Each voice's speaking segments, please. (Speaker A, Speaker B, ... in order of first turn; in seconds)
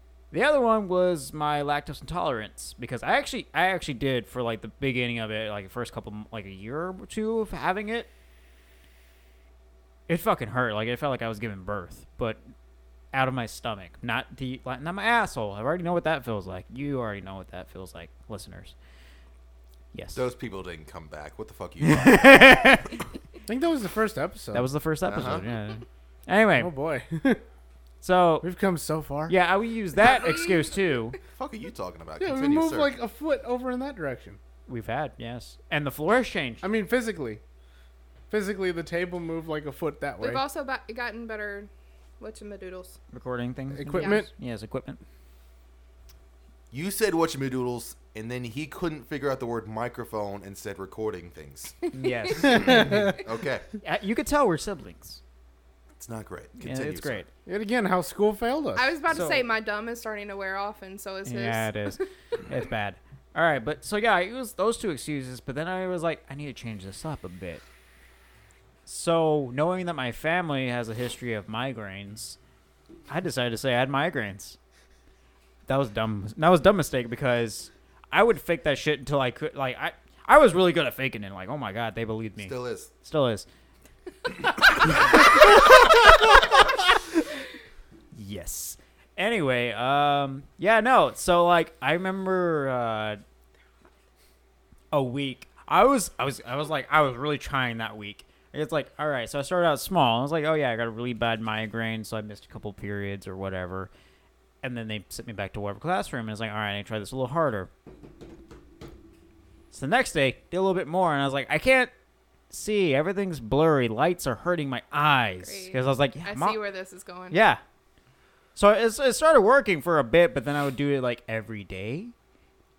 Speaker A: 0.3-8.1, 10.1-12.4, 13.1-18.7, 19.9-20.2, 21.8-23.0, 24.5-26.7, 28.0-28.5, 29.3-31.2, 34.7-36.6, 43.1-45.0, 51.9-53.1, 53.8-55.2, 56.6-57.3, 59.1-59.4, 61.2-67.6, 68.8-72.4, 73.1-74.6, 75.7-83.5, 84.8-86.8, 88.1-93.2, 94.9-103.9, 104.6-107.7, 109.7-111.9, 112.5-116.6, 117.3-117.6, 118.5-122.1
Speaker B: 20.1-22.9, 25.1-25.4, 31.3-32.9, 46.7-51.8, 52.5-53.6, 56.0-57.2, 82.4-82.9
Speaker C: 23.5-24.7, 26.6-27.4, 28.4-29.3, 32.2-34.4, 36.6-37.4, 38.3-40.4, 43.7-44.3, 52.4-53.2, 57.5-58.9
Speaker D: 30.0-30.9, 40.2-43.0, 43.9-44.2, 52.0-52.7, 58.8-62.0, 115.4-117.4